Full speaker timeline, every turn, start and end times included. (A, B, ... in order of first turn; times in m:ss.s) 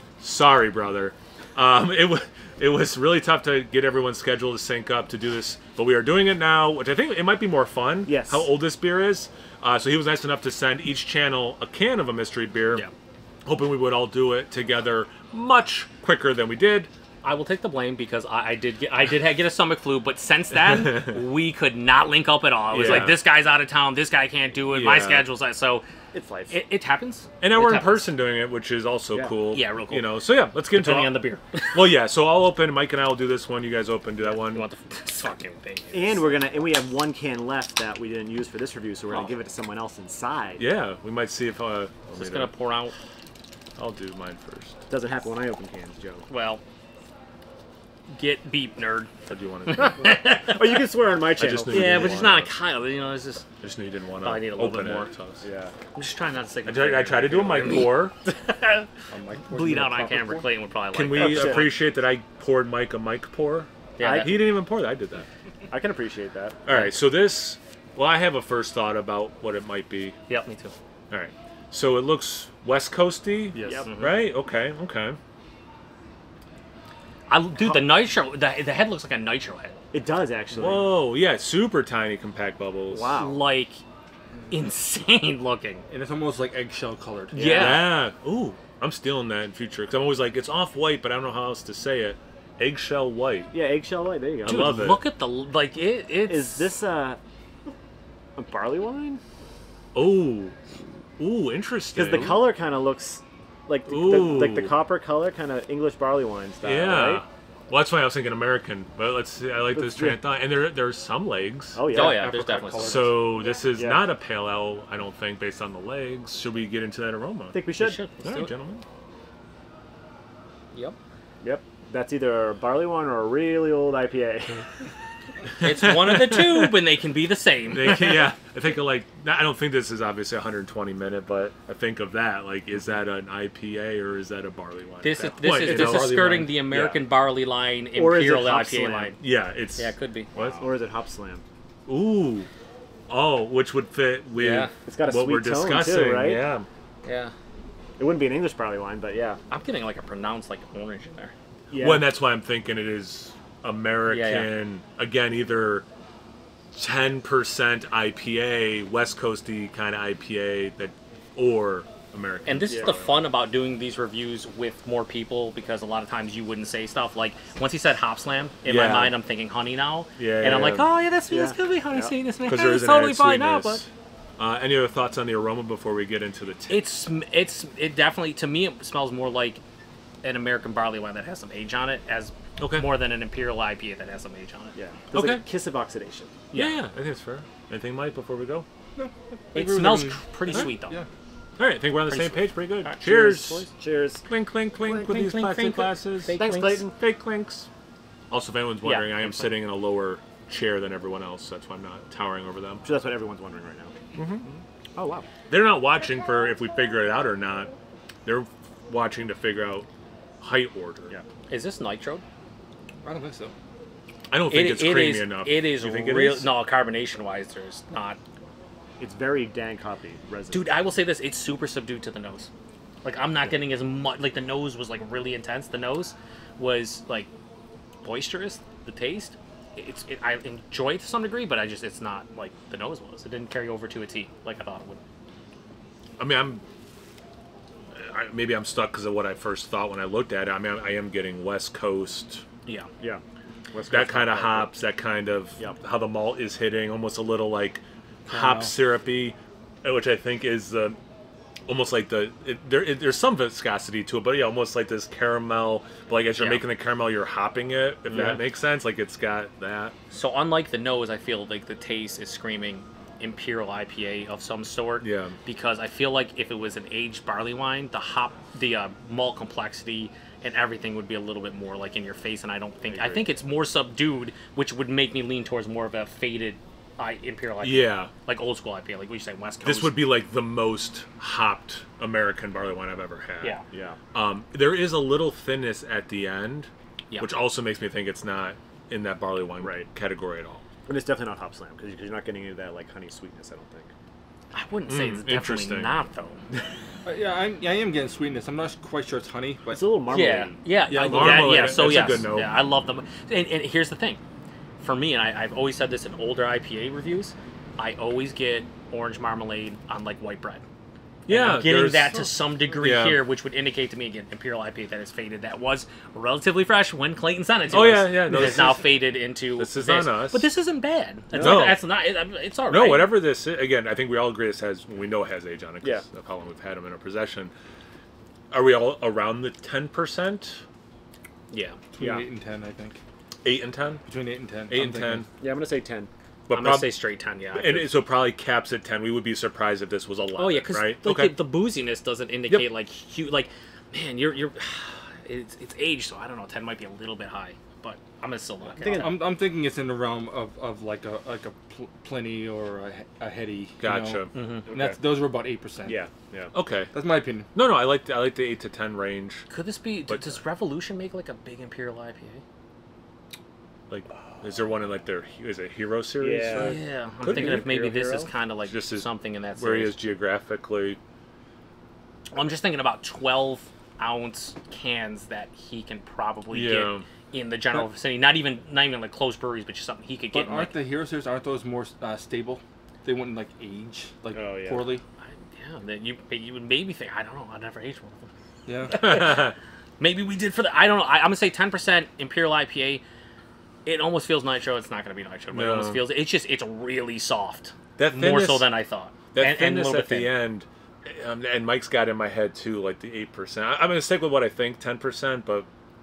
0:00.2-0:12.9 A
0:08.0-0:08.5 B
0:13.4-0:16.9 A
0:17.2-0:25.8 C
0:22.7-0:23.2 A
0:24.7-0:25.3 A
0:26.1-0:26.6 B
0:26.5-0:28.1 C
0:27.4-0:31.2 A
0:29.5-0:31.9 C
0:31.7-0:34.7 A
0:34.2-0:36.2 C
0:35.9-0:40.6 B
0:40.6-0:42.5 A
0:42.1-0:42.9 C
0:43.8-0:44.8 A
0:44.9-0:46.2 B
0:46.3-0:46.6 C
0:48.1-0:50.9 C
0:49.3-0:50.2 A
0:50.3-0:52.3 B
0:51.4-0:52.5 A
0:51.7-0:53.5 C
0:53.6-0:55.4 A
0:54.2-0:55.3 C
0:55.4-0:55.7 B
0:55.9-1:01.8 C
0:56.6-0:58.1 A
0:59.1-1:00.4 D
1:00.9-1:05.2 A
1:01.1-1:01.7 B
1:04.0-1:04.5 C
1:04.0-1:04.4 B
1:05.7-1:06.6 B
1:06.6-1:10.2 A
1:10.3-1:10.8 C
1:11.1-1:15.2 A
1:13.5-1:13.9 B
1:13.8-1:14.2 C
1:17.3-1:19.8 C
1:19.9-1:20.9 B
1:20.5-1:23.2 A
1:22.9-1:23.4 B
1:23.1-1:23.8 C
1:24.5-1:25.8 C
1:25.9-1:27.6 D
1:27.3-1:27.9 C
1:27.3-1:27.8 B
1:27.5-1:33.5 A
1:33.5-1:34.9 B
1:34.4-1:35.0 A
1:34.4-1:36.8 C
1:36.2-1:37.2 B
1:38.4-1:39.2 B
1:39.9-1:40.6 A
1:41.2-1:42.5 A
1:41.9-1:47.2 B
1:43.9-1:44.8 A
1:46.6-1:51.8 A
1:49.7-1:50.2 B
1:51.7-1:52.2 B
1:51.9-1:53.2 D
1:51.9-1:53.3 C
1:52.8-1:57.6 A
1:53.7-1:54.1 B
1:57.5-1:58.0 B
1:57.8-1:58.5 C
1:58.2-1:58.8 A
2:01.4-2:04.8 B
2:05.6-2:08.3 C
2:05.6-2:06.8 A
2:07.7-2:16.2 A
2:15.0-2:19.2 C
2:15.4-2:16.6 D
2:16.7-2:17.0 B
2:17.9-2:19.1 B
2:19.2-2:20.6 A
2:19.8-2:20.3 C
2:20.6-2:21.4 B
2:21.9-2:22.5 A
2:23.1-2:26.7 A
2:24.4-2:24.7 C
2:24.8-2:26.4 B
2:27.0-2:27.3 C
2:28.0-2:29.4 B
2:29.5-2:31.3 C
2:31.7-2:32.1 B
2:31.7-2:35.8 A
2:34.1-2:34.5 C
2:36.7-2:43.1 A
2:42.4-2:53.8 C
2:42.7-2:43.1 B
2:48.6-2:49.2 A
2:50.2-2:50.9 A
2:51.3-2:52.1 B
2:52.4-2:56.9 A
2:56.7-2:59.6 C
3:00.2-3:04.8 C
3:02.6-3:02.9 A
3:04.7-3:06.3 B
3:05.1-3:05.4 A
3:06.5-3:06.8 C
3:06.5-3:08.6 A
3:09.0-3:11.1 D
3:09.5-3:11.0 C
3:11.6-3:13.7 A
3:12.0-3:12.9 C
3:13.0-3:14.3 B
3:14.3-3:17.7 A
3:14.9-3:16.8 C
3:16.3-3:16.9 B
3:18.3-3:22.8 A
3:18.8-3:19.5 C
3:22.8-3:23.9 B
3:24.1-3:24.4 A
3:24.4-3:25.3 B
3:25.5-3:27.7 A
3:28.2-3:29.9 A
3:30.4-3:31.1 A
3:31.5-3:32.2 C
3:33.0-3:33.5 D
3:34.3-3:36.5 A
3:34.5-3:38.2 C
3:39.0-3:40.7 B
3:40.5-3:42.5 C
3:43.0-3:47.3 C
3:48.0-3:55.0 C
3:56.2-3:56.6 A
3:57.9-4:02.4 A
4:03.0-4:04.7 B
4:03.9-4:11.0 A
4:08.3-4:08.7 D
4:11.7-4:19.9 A
4:16.4-4:16.6 C
4:20.1-4:40.0 C
4:25.0-4:25.4 A
4:32.9-4:33.3 B
4:37.6-4:38.1 A
4:39.6-4:43.6 A
4:43.7-4:44.0 B
4:44.1-4:50.6 A
4:49.6-4:49.9 B
4:50.8-4:53.9 B
4:54.5-4:56.4 C
4:54.9-4:56.0 A
4:57.0-5:00.2 D
4:59.7-5:00.6 B
5:00.1-5:04.2 C
5:00.9-5:01.9 D
5:01.0-5:02.6 A
5:04.8-5:10.6 C
5:11.3-5:13.2 A
5:11.3-5:23.2 C
5:17.7-5:19.0 A
5:19.5-5:20.5 A
5:21.3-5:21.7 B
5:21.3-5:21.8 A
5:22.7-5:27.5 A
5:28.5-5:30.6 A
5:31.5-5:31.8 C
5:31.9-5:33.0 D
5:32.0-5:32.2 B
5:33.4-5:34.0 A
5:34.0-5:35.2 D
5:34.7-5:35.3 A
5:35.4-5:36.1 B
5:36.5-5:37.0 A
5:36.5-5:37.9 C
5:37.5-5:41.4 A
5:40.4-5:49.2 C
5:48.6-5:49.3 B
5:49.0-5:56.0 D
5:53.8-5:54.3 A
5:54.3-5:54.7 C
5:54.7-5:55.0 B
5:55.8-5:56.5 B
5:56.5-5:56.9 A
5:56.9-5:57.5 D
5:57.5-5:59.4 A
5:59.5-6:02.4 C
6:00.1-6:00.4 A
6:03.9-6:07.8 A
6:06.2-6:08.3 B
6:06.5-6:10.0 C
6:08.6-6:11.0 A
6:12.3-6:20.8 C
6:16.5-6:17.0 A
6:20.3-6:25.0 D
6:24.3-6:25.0 B
6:25.2-6:28.3 C
6:28.6-6:29.0 D
6:28.8-6:33.0 C
6:28.9-6:29.5 A
6:33.8-6:40.4 C
6:35.5-6:36.1 A
6:38.0-6:38.8 A
6:39.3-6:45.7 A